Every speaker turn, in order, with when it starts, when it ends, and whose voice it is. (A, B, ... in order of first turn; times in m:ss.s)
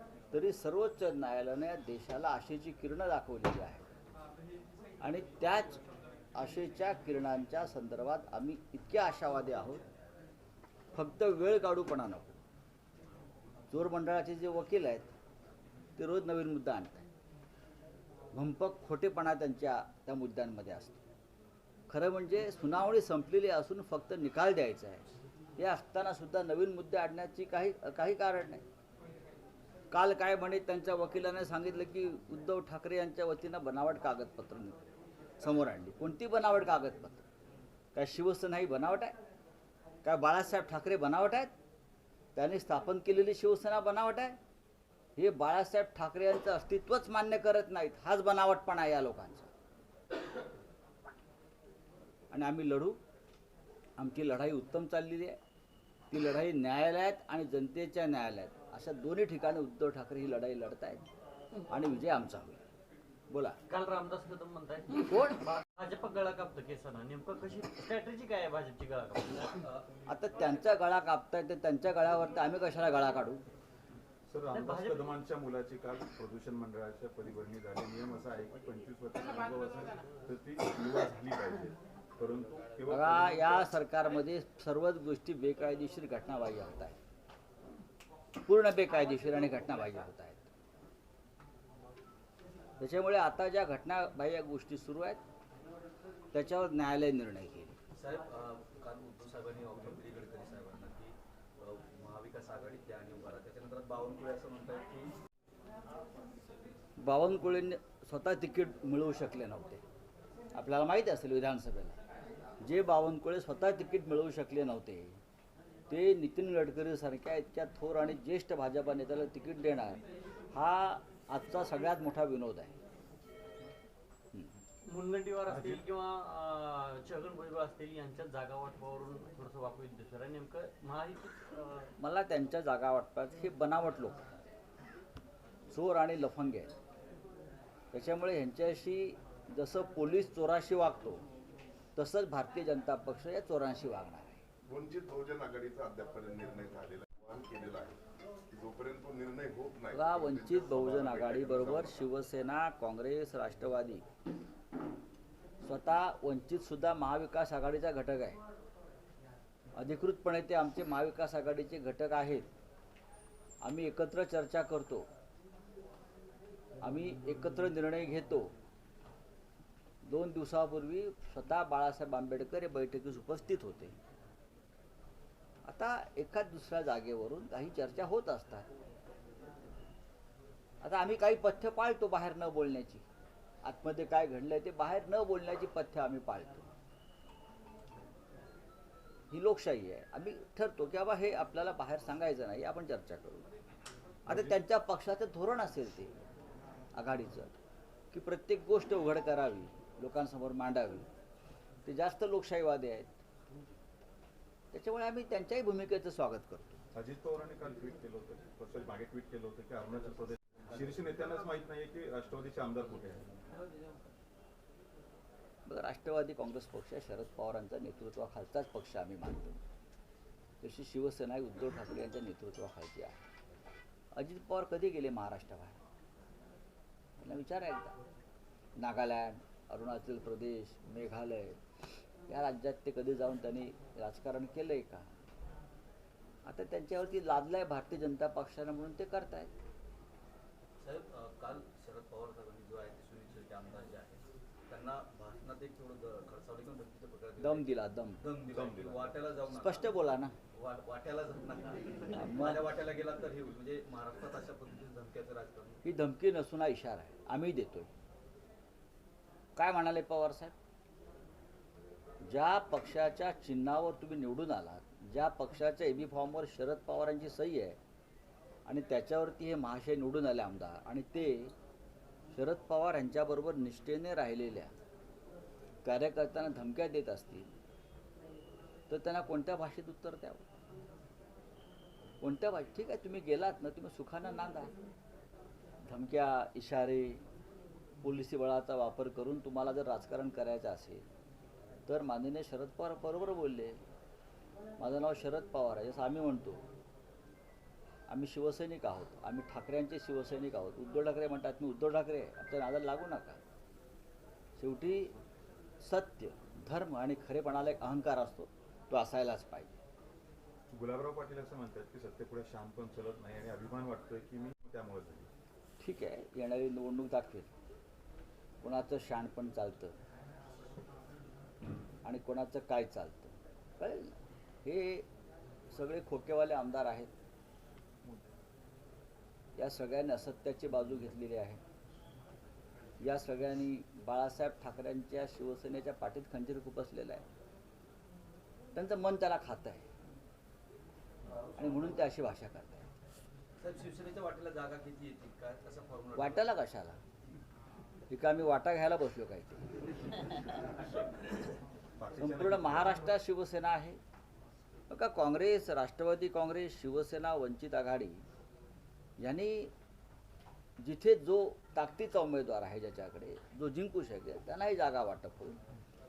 0:00.3-0:03.9 A
0:05.0-0:05.8 A
0:06.4-0:09.8 A
0:10.9-0:12.4 A
0:13.7-0:15.1 A
0:16.0-0:17.1 A
0:18.3-0:21.0 A
0:21.9-0:25.1 A
0:25.6-0:28.6 A
0:29.9-0:34.9 A
0:35.4-0:37.2 A
0:37.9-0:39.2 A
0:40.0-0:41.5 A
0:42.4-0:44.4 A
0:45.2-0:49.5 A
0:52.3-0:53.0 A
0:54.0-0:55.4 A
0:56.1-1:01.0 A
1:01.7-1:02.6 A
1:03.3-1:03.6 A
1:03.7-1:09.6 B
1:05.1-1:05.4 A
1:09.6-1:09.9 C
1:10.1-1:13.4 A
1:14.3-1:23.7 D
1:14.5-1:15.2 B
1:22.9-1:27.0 A
1:28.4-1:30.5 A
1:32.8-1:35.2 A
1:36.3-1:37.8 A
1:38.0-1:45.2 C
1:47.0-1:49.8 A
1:50.6-1:52.0 A
1:52.6-1:55.2 A
1:55.9-2:00.0 A
2:00.5-2:02.8 A
2:04.8-2:11.9 B
2:12.0-2:14.2 A
2:15.7-2:16.7 A
2:17.9-2:21.2 A
2:22.0-2:24.4 A
2:24.7-2:28.0 E
2:28.5-2:31.9 E
2:29.9-2:34.0 A
2:35.6-2:38.4 A
2:39.8-2:42.5 A
2:43.6-2:45.1 A
2:46.8-2:48.5 A
2:50.0-2:54.0 A
2:55.6-2:58.7 A
3:00.8-3:03.0 A
3:03.6-3:06.7 A
3:09.3-3:13.5 A
3:14.3-3:16.1 A
3:14.3-3:14.5 D
3:17.0-3:17.6 A
3:18.1-3:21.1 A
3:21.8-3:23.2 A
3:24.7-3:26.8 A
3:26.9-3:33.3 D
3:35.7-3:39.6 A
3:40.6-3:43.2 A
3:44.2-3:45.8 A
3:47.2-3:48.0 A
3:48.8-3:51.6 A
3:52.3-3:55.1 A
3:56.4-3:59.5 A
4:00.8-4:09.9 C
4:07.4-4:08.2 A
4:08.5-4:09.2 D
4:09.5-4:10.3 A
4:10.5-4:15.8 C
4:12.1-4:12.7 A
4:15.8-4:17.9 A
4:19.6-4:20.6 A
4:22.2-4:27.8 A
4:28.7-4:31.5 A
4:32.3-4:34.7 A
4:35.8-4:37.5 A
4:38.9-4:40.5 A
4:42.2-4:44.7 A
4:45.9-4:47.2 A
4:48.0-4:51.0 A
4:51.9-4:53.8 A
4:54.8-4:56.6 A
4:58.1-5:03.4 A
5:04.6-5:05.1 A
5:05.8-5:09.8 A
5:10.7-5:15.3 D
5:15.8-5:17.5 A
5:18.6-5:20.0 A
5:22.0-5:25.1 A
5:25.7-5:27.1 A
5:29.6-5:31.6 A
5:33.0-5:37.3 A
5:38.8-5:39.9 A
5:41.3-5:42.1 C
5:41.6-5:42.9 A
5:43.6-5:46.4 C
5:46.2-5:47.0 A
5:48.1-5:49.6 A
5:52.0-5:53.0 D
5:52.2-5:54.0 A
5:54.9-5:58.2 A
5:59.2-5:59.7 A
6:00.8-6:05.6 A